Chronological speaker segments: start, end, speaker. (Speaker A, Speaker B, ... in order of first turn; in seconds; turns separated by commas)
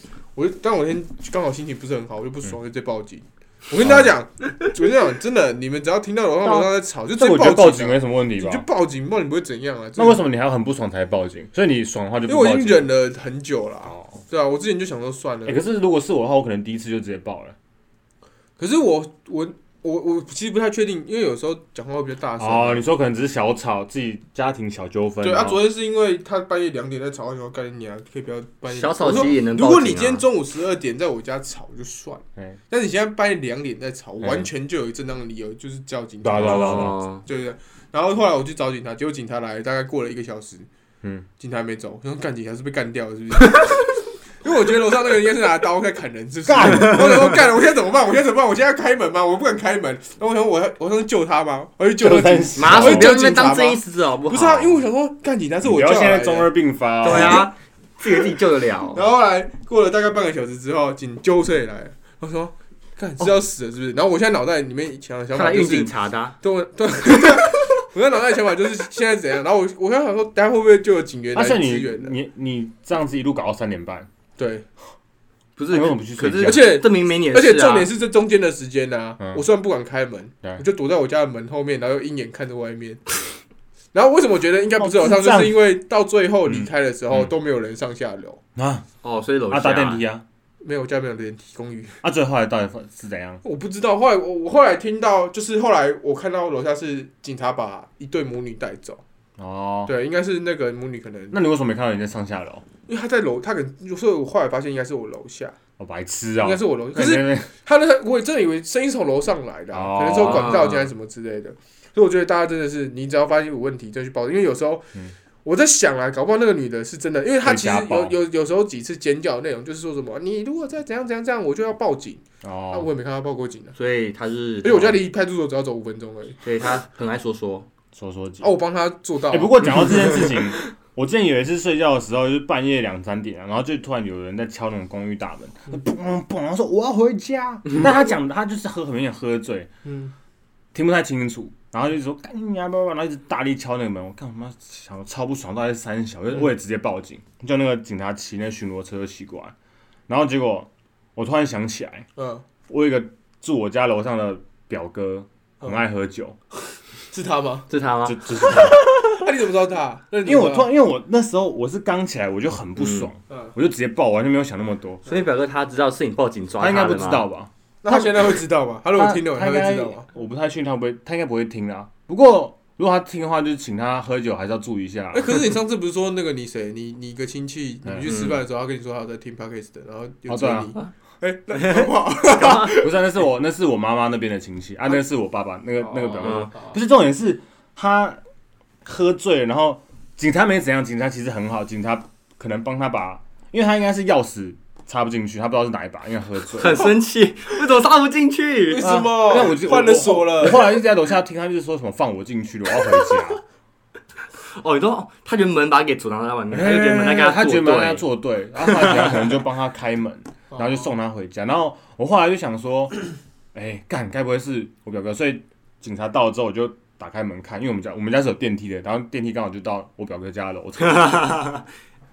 Speaker A: 0.4-10.2, Speaker B: 3.8-4.1, Speaker B: 6.5-8.7, Speaker B: 10.0-12.9, Speaker A: 12.3-15.6, Speaker B: 13.9-14.2, Speaker B: 15.5-17.6, Speaker A: 18.6-22.8, Speaker B: 22.4-25.6, Speaker A: 25.2-40.7, Speaker C: 28.7-30.3, Speaker B: 34.2-34.5, Speaker B: 36.2-37.0, Speaker C: 36.4-37.2, Speaker A: 41.4-43.9, Speaker A: 44.4-56.5, Speaker B: 46.5-47.4, Speaker B: 52.0-53.2, Speaker C: 52.6-54.8, Speaker B: 55.6-57.5, Speaker C: 57.0-59.0, Speaker A: 58.9-72.2, Speaker C: 65.3-66.3, Speaker B: 71.3-74.1, Speaker A: 74.4-74.7, Speaker C: 75.6-77.9, Speaker B: 75.7-76.7, Speaker A: 76.4-83.1, Speaker A: 83.9-88.4, Speaker B: 84.8-85.7, Speaker B: 86.5-87.3, Speaker B: 88.6-88.8, Speaker C: 89.0-90.0, Speaker B: 89.5-90.2, Speaker A: 90.6-92.0, Speaker B: 92.0-93.4, Speaker A: 93.4-99.0, Speaker B: 99.4-99.9, Speaker A: 99.9-101.3, Speaker B: 101.3-102.7, Speaker A: 102.9-105.6, Speaker B: 105.8-107.5, Speaker A: 106.4-114.9, Speaker B: 109.7-110.8, Speaker C: 110.2-110.9, Speaker A: 115.5-123.8, Speaker B: 117.4-118.2, Speaker B: 122.4-122.9, Speaker C: 123.8-125.0, Speaker A: 124.6-126.4, Speaker C: 126.4-127.7, Speaker B: 128.0-128.5, Speaker A: 128.4-130.2, Speaker B: 129.3-139.7, Speaker A: 139.8-140.1, Speaker B: 140.7-149.5, Speaker B: 150.1-152.1, Speaker A: 152.2-152.4, Speaker B: 152.7-156.4, Speaker A: 157.1-157.7, Speaker C: 157.7-158.7, Speaker B: 158.1-158.9, Speaker A: 158.4-160.7, Speaker B: 160.2-165.0, Speaker C: 162.8-163.1, Speaker A: 163.3-163.5, Speaker C: 165.1-167.2, Speaker B: 166.6-168.3, Speaker A: 167.8-170.1, Speaker B: 168.9-175.6, Speaker A: 175.1-182.9, Speaker C: 178.1-178.4, Speaker B: 180.3-180.7, Speaker C: 181.6-182.8, Speaker B: 182.4-188.2, Speaker A: 185.8-186.8, Speaker C: 186.2-186.5, Speaker B: 188.8-196.9, Speaker C: 196.6-198.9, Speaker A: 198.7-200.8, Speaker B: 198.8-203.4, Speaker C: 204.5-208.0, Speaker B: 206.5-221.4, Speaker C: 208.6-209.4, Speaker A: 210.5-210.9, Speaker C: 220.8-221.7